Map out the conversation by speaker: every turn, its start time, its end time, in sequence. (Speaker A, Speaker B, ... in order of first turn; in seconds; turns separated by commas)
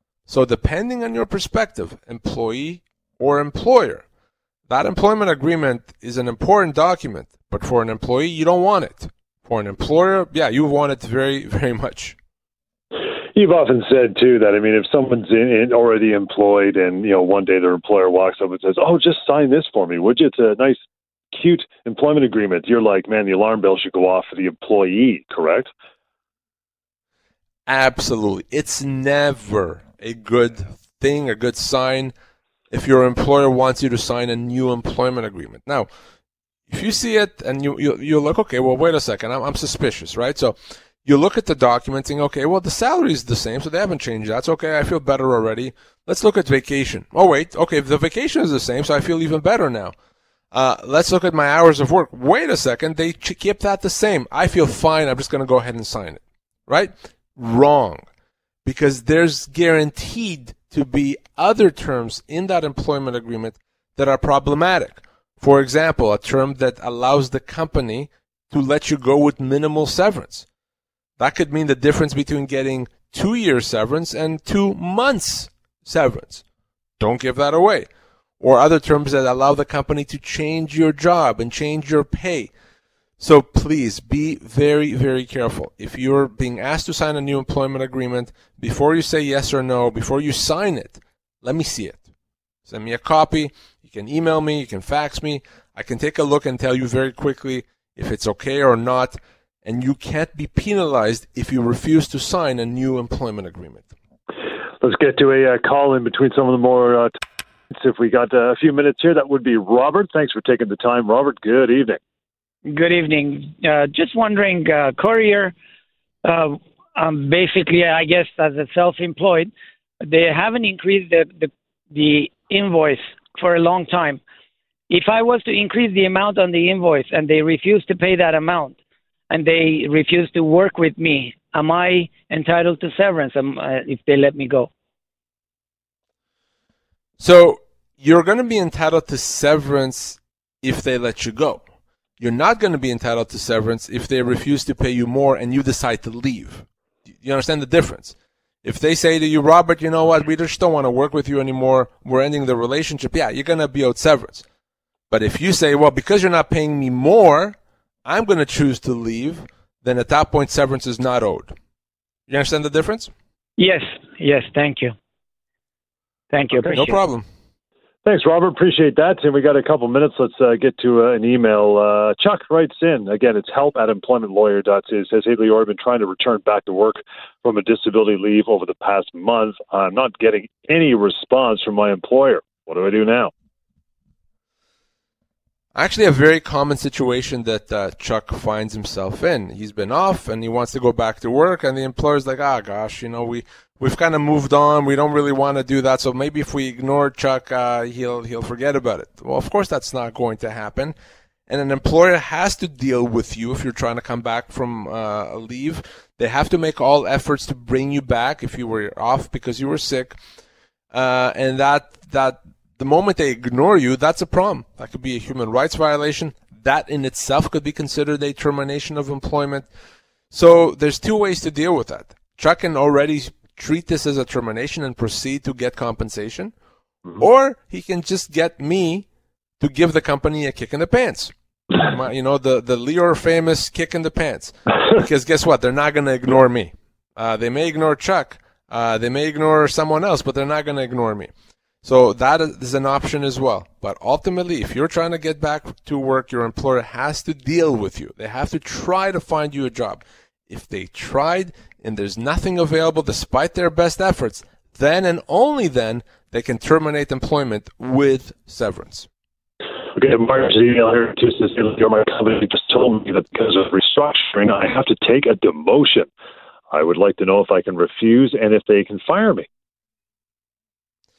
Speaker A: 0.3-4.0, Speaker A: 4.7-12.2, Speaker B: 13.3-20.8, Speaker B: 21.3-25.7, Speaker A: 27.7-32.1, Speaker A: 32.7-35.9, Speaker A: 36.7-49.9, Speaker A: 50.5-58.0, Speaker A: 58.6-70.5, Speaker A: 71.2-76.4, Speaker A: 77.0-77.9, Speaker A: 78.4-82.5, Speaker A: 83.2-92.0, Speaker A: 92.7-103.9, Speaker B: 104.8-107.1, Speaker B: 107.7-112.0, Speaker C: 112.7-115.5, Speaker C: 116.2-124.2, Speaker C: 124.9-128.8, Speaker C: 129.3-134.7, Speaker A: 137.2-141.6, Speaker A: 142.2-146.7, Speaker A: 147.2-154.4, Speaker A: 155.1-161.5, Speaker A: 162.3-163.1, Speaker C: 163.6-164.9, Speaker C: 166.3-167.0, Speaker A: 166.7-167.2, Speaker B: 168.0-183.3, Speaker A: 185.7-200.9, Speaker A: 201.5-210.2, Speaker A: 210.9-219.7, Speaker A: 220.3-226.5, Speaker A: 227.2-229.1, Speaker A: 229.6-241.3, Speaker A: 241.8-259.1, Speaker B: 259.9-266.1, Speaker B: 266.7-269.5